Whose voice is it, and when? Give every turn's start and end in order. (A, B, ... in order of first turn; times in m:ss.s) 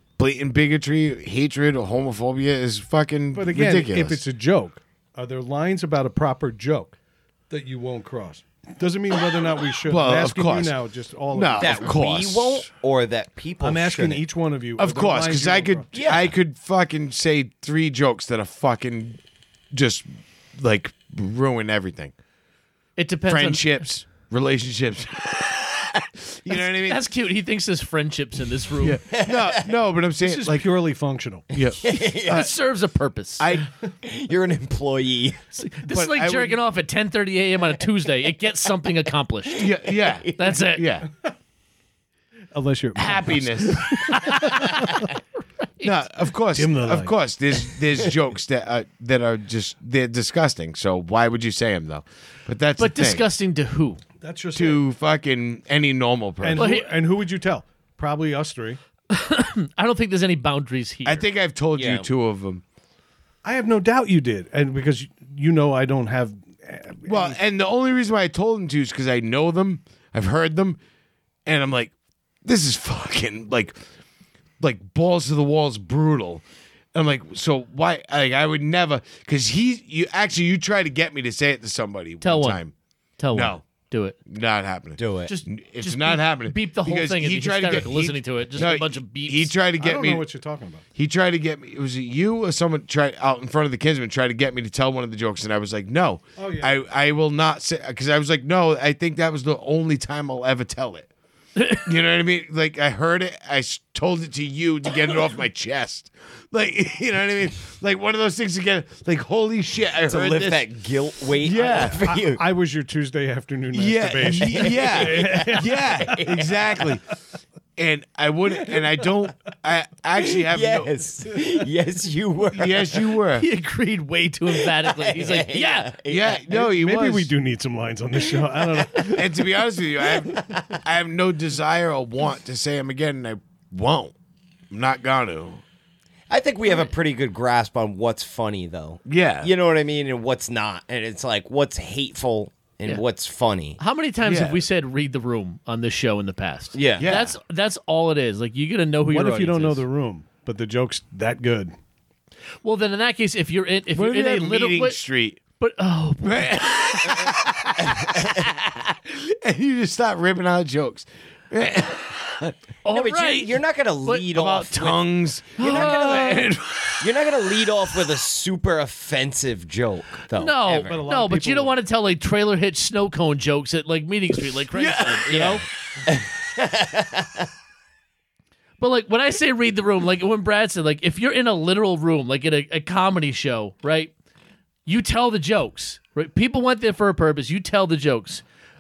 0:00.2-0:04.2 A
0:03.3-0:07.0 B
0:07.5-0:12.0 B
0:09.9-0:10.8 A
0:11.3-0:12.7 A
0:11.6-0:14.2 C
0:13.6-0:15.9 B
0:14.8-0:19.2 A
0:15.9-0:16.3 C
0:19.7-0:22.1 A
0:23.0-0:23.8 D
0:23.3-0:27.0 A
0:26.5-0:29.0 D
0:28.8-0:30.7 A
0:29.1-0:29.7 C
0:30.2-0:31.5 B
0:31.5-0:32.5 A
0:31.8-0:32.5 C
0:31.9-0:33.6 D
0:33.4-0:33.7 A
0:34.0-0:35.4 C
0:35.5-0:39.8 D
0:35.9-0:36.6 A
0:39.6-0:41.1 A
0:40.0-0:40.3 C
0:40.4-0:40.9 D
0:42.5-0:45.1 B
0:43.0-0:44.5 A
0:43.9-0:45.2 D
0:45.8-0:53.2 A
0:46.5-0:47.2 B
0:52.8-0:54.0 D
0:54.2-0:54.8 B
0:54.6-0:56.7 A
0:56.4-0:58.8 B
0:56.6-0:56.9 D
0:59.1-1:01.3 D
1:01.0-1:02.6 A
1:01.8-1:02.1 C
1:03.4-1:07.4 B
1:07.1-1:10.8 A
1:11.5-1:11.9 A
1:12.4-1:13.8 A
1:14.6-1:16.4 A
1:16.9-1:22.7 A
1:22.2-1:22.6 D
1:23.2-1:24.2 D
1:23.3-1:23.6 A
1:24.3-1:30.2 A
1:25.0-1:25.3 C
1:25.3-1:29.5 D
1:29.8-1:30.8 B
1:31.0-1:41.1 A
1:36.4-1:36.8 B
1:41.6-1:41.9 D
1:41.8-1:50.6 A
1:50.1-1:52.4 C
1:51.4-1:52.2 A
1:52.4-1:56.2 B
1:53.7-1:57.0 A
1:54.3-1:56.9 C
1:57.8-2:00.9 A
2:00.2-2:03.2 C
2:02.5-2:03.5 A
2:03.4-2:05.9 D
2:04.5-2:06.5 C
2:06.1-2:07.3 A
2:06.5-2:09.3 B
2:08.4-2:09.2 C
2:08.9-2:14.2 A
2:10.0-2:10.8 C
2:14.7-2:15.6 A
2:16.3-2:23.8 C
2:19.1-2:19.5 A
2:23.8-2:29.8 D
2:24.2-2:24.6 A
2:26.7-2:27.1 C
2:27.0-2:27.4 A
2:29.1-2:31.7 B
2:32.6-2:35.0 D
2:33.9-2:35.4 A
2:35.6-2:36.6 D
2:36.2-2:42.6 A
2:37.8-2:38.5 C
2:42.8-2:45.0 D
2:42.9-2:45.0 C
2:44.3-2:47.1 A
2:45.6-2:46.5 C
2:45.6-2:46.5 D
2:47.0-2:51.0 C
2:50.4-2:55.6 D
2:50.8-2:51.8 B
2:54.7-2:55.4 A
2:55.3-2:57.5 C
2:58.8-3:04.1 D
3:04.9-3:08.4 D